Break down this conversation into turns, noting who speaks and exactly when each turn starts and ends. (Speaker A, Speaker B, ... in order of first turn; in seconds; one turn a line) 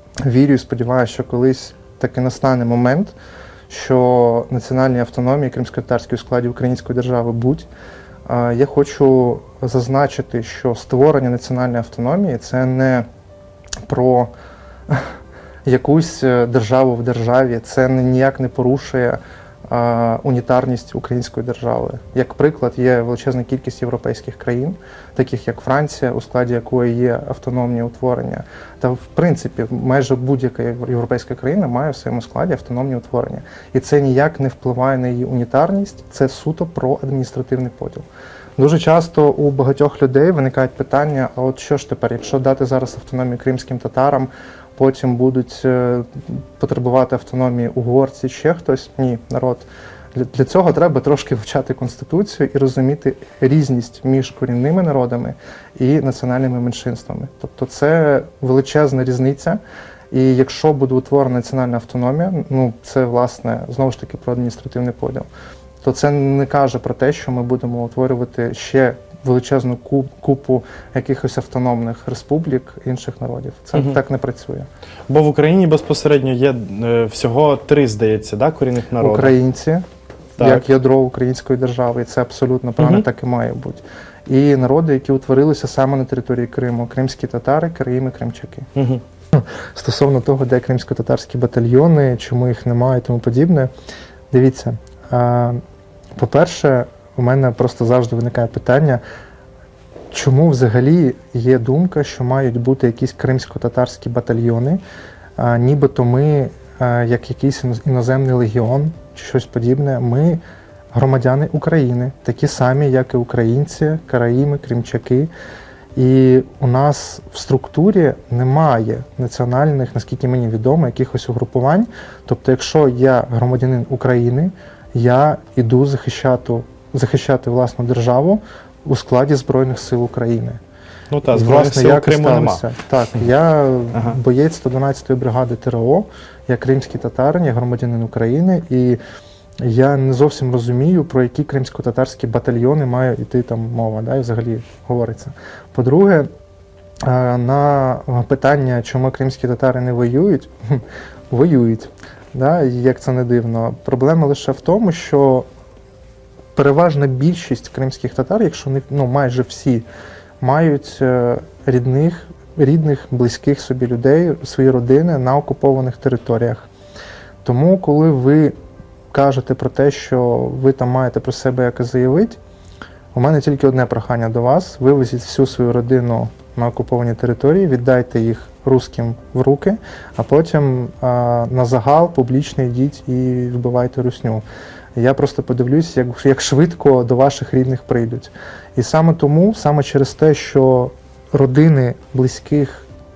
Speaker A: 0.2-3.1
Speaker A: 3.7-7.7
Speaker A: 8.3-13.1
Speaker A: 13.9-14.3
Speaker A: 15.7-38.1
Speaker A: 38.6-59.6
Speaker A: 60.1-65.3
Speaker A: 65.8-74.7
Speaker B: 75.1-79.3
Speaker A: 79.0-79.8
Speaker B: 80.4-80.7
Speaker A: 80.4-88.7
Speaker B: 88.8-89.0
Speaker A: 89.3-93.7
Speaker A: 94.3-95.6
Speaker A: 96.2-99.0
Speaker A: 100.1-104.8
Speaker A: 105.4-110.4
Speaker A: 110.9-115.3
Speaker A: 116.0-130.6
Speaker B: 131.1-132.6
Speaker A: 131.3-139.0
Speaker A: 139.6-146.3
Speaker A: 147.0-155.5
Speaker A: 156.6-159.8
Speaker A: 160.4-166.7
Speaker A: 167.4-168.6
Speaker A: 169.1-172.4
Speaker A: 173.1-184.4
Speaker A: 185.0-192.9